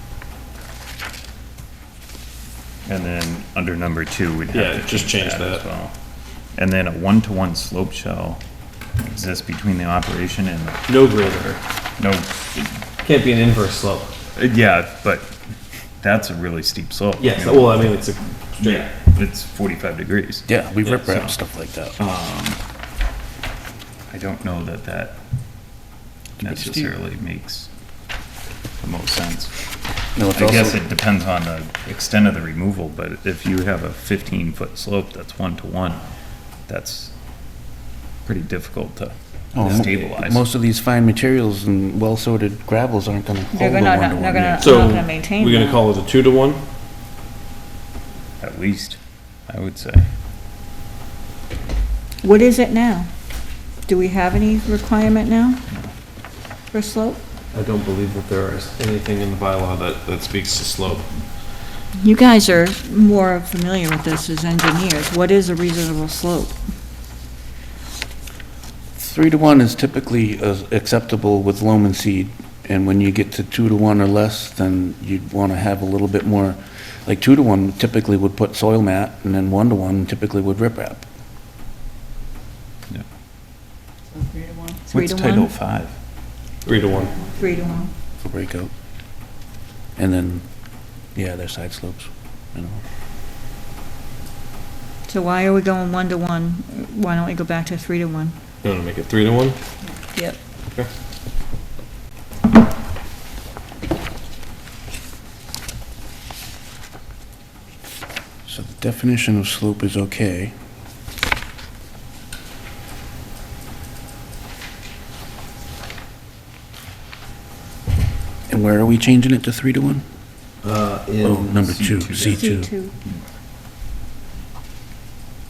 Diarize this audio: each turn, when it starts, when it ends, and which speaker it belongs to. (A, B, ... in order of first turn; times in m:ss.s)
0:02.8-0:05.9 A
0:04.5-0:05.6 B
0:06.5-0:08.4 A
0:09.0-0:12.8 A
0:10.9-0:11.6 B
0:13.0-0:14.1 B
0:14.4-0:15.4 A
0:16.0-0:18.1 A
0:17.2-0:18.9 B
0:18.6-0:21.4 A
0:20.5-0:22.0 C
0:22.0-0:22.6 A
0:24.1-0:25.2 A
0:26.4-0:27.7 A
0:26.4-0:26.9 C
0:28.8-0:29.5 A
0:30.2-0:30.8 C
0:30.4-0:36.0 A
0:36.7-0:37.1 A
0:38.2-0:40.4 A
0:39.5-0:44.9 C
0:39.6-0:40.1 B
0:43.5-0:45.8 D
0:44.6-0:46.6 B
0:48.4-0:50.1 A
0:52.2-0:53.1 D
0:53.9-0:55.6 D
0:56.7-0:57.2 D
0:57.5-1:01.1 B
1:01.9-1:06.6 D
1:09.0-1:21.0 C
1:24.8-1:25.5 D
1:24.9-1:26.0 A
1:26.6-1:27.2 B
1:27.3-1:27.9 D
1:28.2-1:28.7 C
1:30.0-1:30.4 C
1:31.1-1:32.8 C
1:35.1-1:38.4 D
1:38.6-1:39.6 B
1:40.1-1:40.4 D
1:48.5-1:50.5 C
1:58.5-2:00.0 C
2:00.6-2:01.7 B
2:01.2-2:02.7 C
2:01.6-2:02.4 A
2:02.2-2:03.0 D